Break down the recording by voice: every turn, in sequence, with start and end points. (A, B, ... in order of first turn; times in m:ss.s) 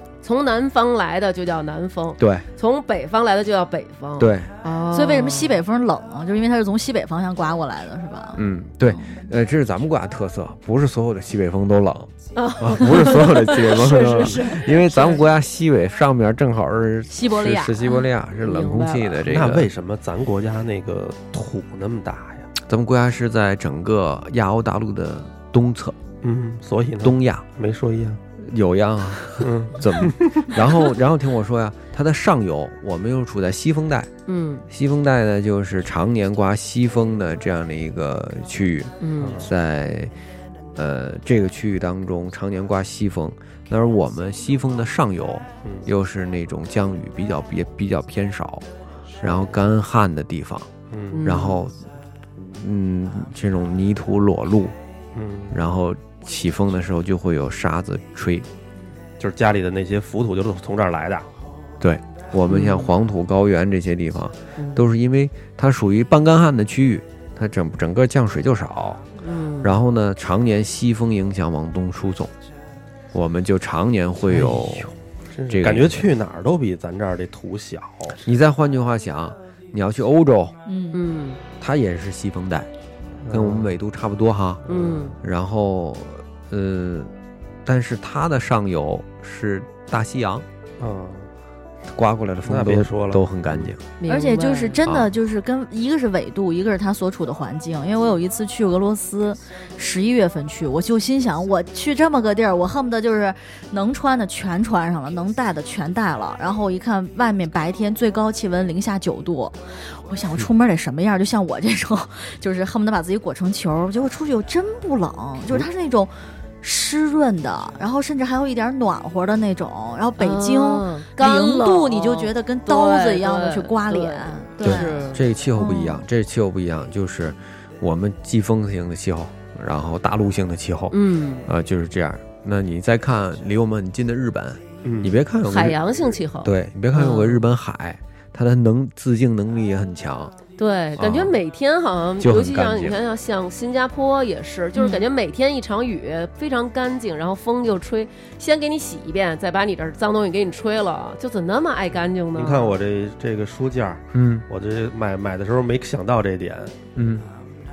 0:00.2-0:05.6 A
0:02.2-0:02.5 B
0:04.2-0:04.5 B
0:04.9-0:09.2 C
0:08.3-0:19.7 B
0:12.4-0:15.2 A
0:14.2-0:15.2 C
0:17.1-0:18.1 C
0:18.4-0:19.2 A
0:19.3-0:22.5 D
0:22.6-0:26.0 B
0:26.2-0:28.2 D
0:27.0-0:27.4 B
0:28.4-0:34.1 B
0:29.4-0:30.6 D
0:34.3-0:34.6 A
0:34.7-0:40.1 B
0:39.0-0:39.4 A
0:39.2-0:39.5 D
0:40.8-0:48.7 B
0:49.2-0:49.4 D
0:49.2-0:50.7 B
0:50.9-0:51.2 D
0:51.1-0:51.6 A
0:51.2-0:51.8 B
0:52.4-0:54.8 B
0:55.1-0:55.6 D
0:55.5-0:58.5 B
0:59.2-1:01.3 D
1:01.8-1:09.0 B
1:02.5-1:02.9 A
1:04.6-1:04.8 A
1:09.2-1:09.8 A
1:09.6-1:12.3 B
1:13.1-1:14.9 B
1:14.4-1:14.8 D
1:15.3-1:18.2 D
1:15.5-1:16.1 B
1:18.2-1:20.6 B
1:20.7-1:21.0 C
1:20.9-1:21.4 A
1:21.6-1:22.7 B
1:23.2-1:23.7 D
1:23.3-1:27.1 B
1:24.7-1:25.1 D
1:24.7-1:25.2 A
1:27.6-1:30.5 B
1:30.8-1:31.3 D
1:31.9-1:33.8 B
1:32.4-1:33.7 D
1:34.0-1:34.8 A
1:34.1-2:05.0 C
1:34.8-1:35.1 B
2:00.2-2:05.2 A
2:04.6-2:15.8 B
2:05.6-2:06.0 C
2:10.9-2:11.5 A
2:14.8-2:15.2 D
2:15.4-2:17.4 A
2:16.4-2:20.4 B
2:20.6-2:32.8 A
2:21.0-2:21.4 B
2:22.2-2:23.0 B
2:24.8-2:25.0 C
2:32.4-2:36.8 D
2:34.1-2:34.4 B
2:37.0-2:37.3 B